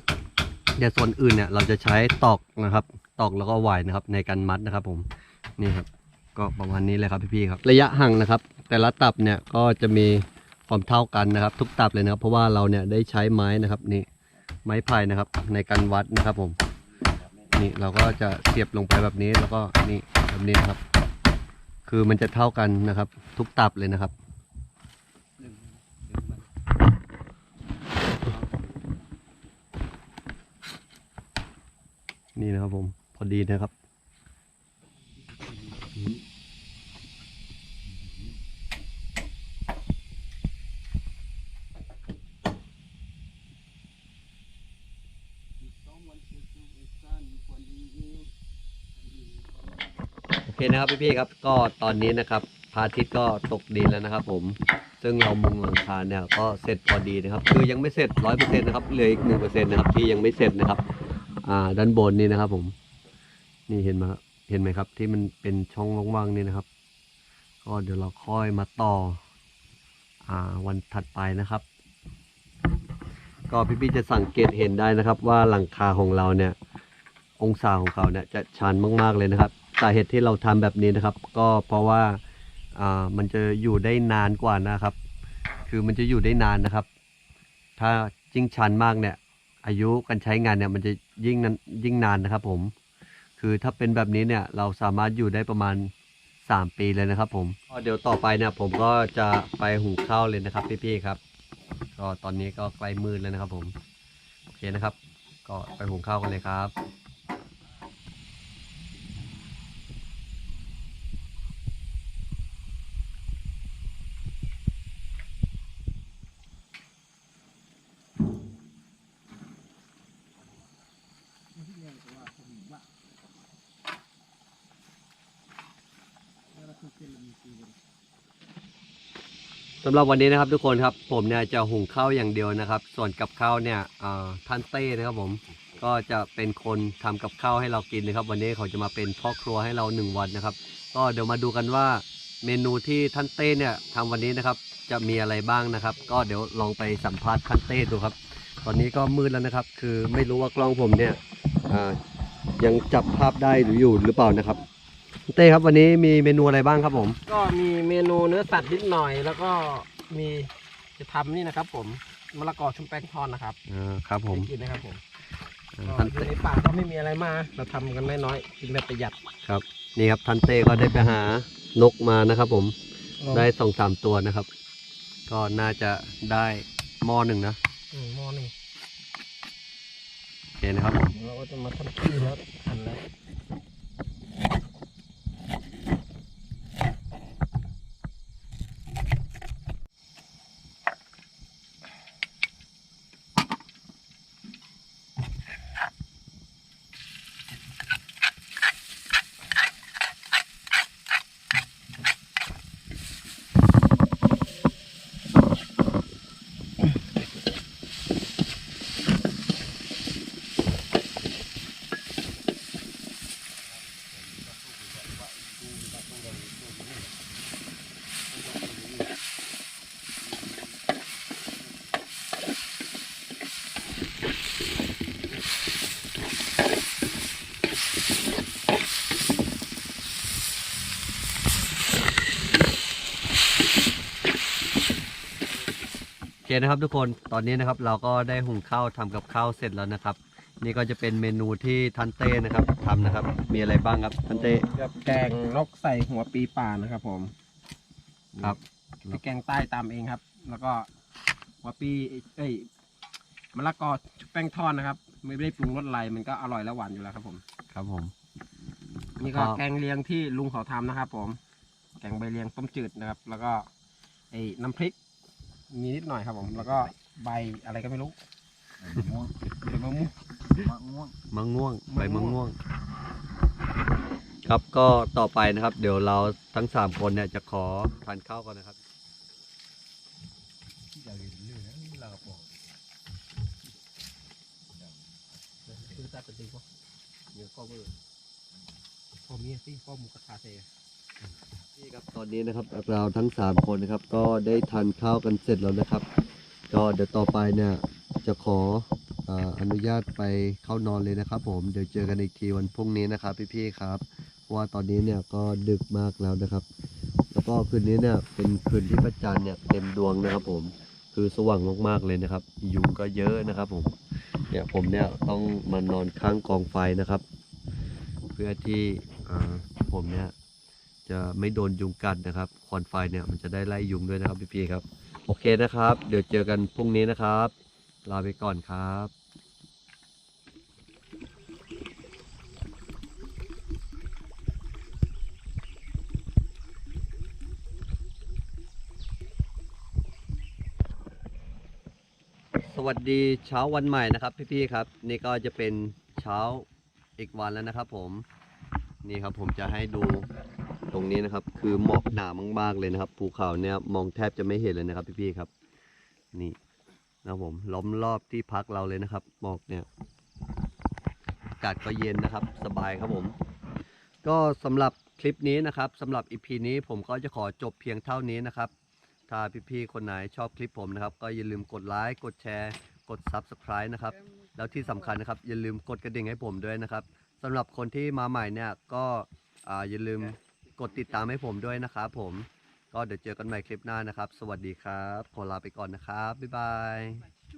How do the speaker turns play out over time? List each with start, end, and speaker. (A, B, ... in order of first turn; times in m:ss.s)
0:00.8-0:05.1 A
0:05.6-0:14.1 A
0:14.6-0:16.6 A
0:16.8-0:17.8 B
0:17.6-0:20.8 A
0:21.9-0:24.1 A
0:25.4-0:26.5 B
0:28.2-0:28.6 B
0:32.4-0:33.7 A
0:35.5-0:36.1 B
0:45.6-0:48.3 B
0:48.9-0:49.9 B
0:50.5-1:00.8 A
1:01.4-1:02.7 A
1:03.7-1:06.6 A
1:07.6-1:09.2 A
1:10.2-1:11.6 A
1:13.5-1:16.6 A
1:17.4-1:22.2 A
1:22.7-1:25.0 A
1:25.7-1:26.9 A
1:27.8-1:32.7 A
1:33.4-1:35.9 A
1:36.4-1:41.2 A
1:42.0-1:43.7 A
1:44.5-1:46.7 A
2:01.5-2:02.8 C
2:06.5-2:07.7 C
2:09.8-2:32.0 A
2:32.6-2:34.6 A
2:35.3-2:37.2 A
2:37.3-2:43.6 C
2:43.7-2:44.5 A
2:44.3-2:45.0 C
2:45.8-2:46.3 A
2:45.8-2:49.2 C
2:49.5-2:52.8 A
2:53.2-2:53.4 C
2:53.3-2:54.5 A
2:55.3-2:57.6 A
2:57.9-2:58.5 C
3:00.6-3:01.1 A
3:01.1-3:03.0 C
3:33.6-3:37.3 B
3:38.2-3:39.2 B
3:40.2-3:40.8 B
3:56.4-4:04.6 A
4:04.7-4:07.3 C
4:08.4-4:09.2 A
4:09.1-4:10.9 C
4:11.6-4:12.7 C
4:13.5-4:17.4 C
4:17.7-4:18.1 A
4:19.2-4:21.4 C
4:19.3-4:19.6 A
4:22.0-4:23.7 C
4:24.3-4:24.9 C
4:25.7-4:28.1 C
4:28.8-4:29.3 B
4:29.6-4:30.1 C
4:30.6-4:31.1 B
4:31.3-4:32.6 A
4:31.9-4:32.4 C
4:34.4-4:38.8 A
4:40.9-4:42.8 B
4:44.8-4:45.2 B
4:45.7-4:46.6 C
4:47.3-4:47.9 C
4:49.2-4:50.7 C
4:51.8-4:56.0 A
4:56.7-5:06.6 A
5:07.3-5:13.9 A
5:14.5-5:17.2 A
5:18.3-5:20.3 A
5:21.0-5:27.5 A
5:28.0-5:29.1 A
5:42.6-5:48.2 A
5:49.0-5:50.3 A
5:50.9-5:55.5 A
5:57.2-5:59.9 A
6:01.6-6:03.3 A
6:04.2-6:08.7 A
6:09.3-6:27.2 A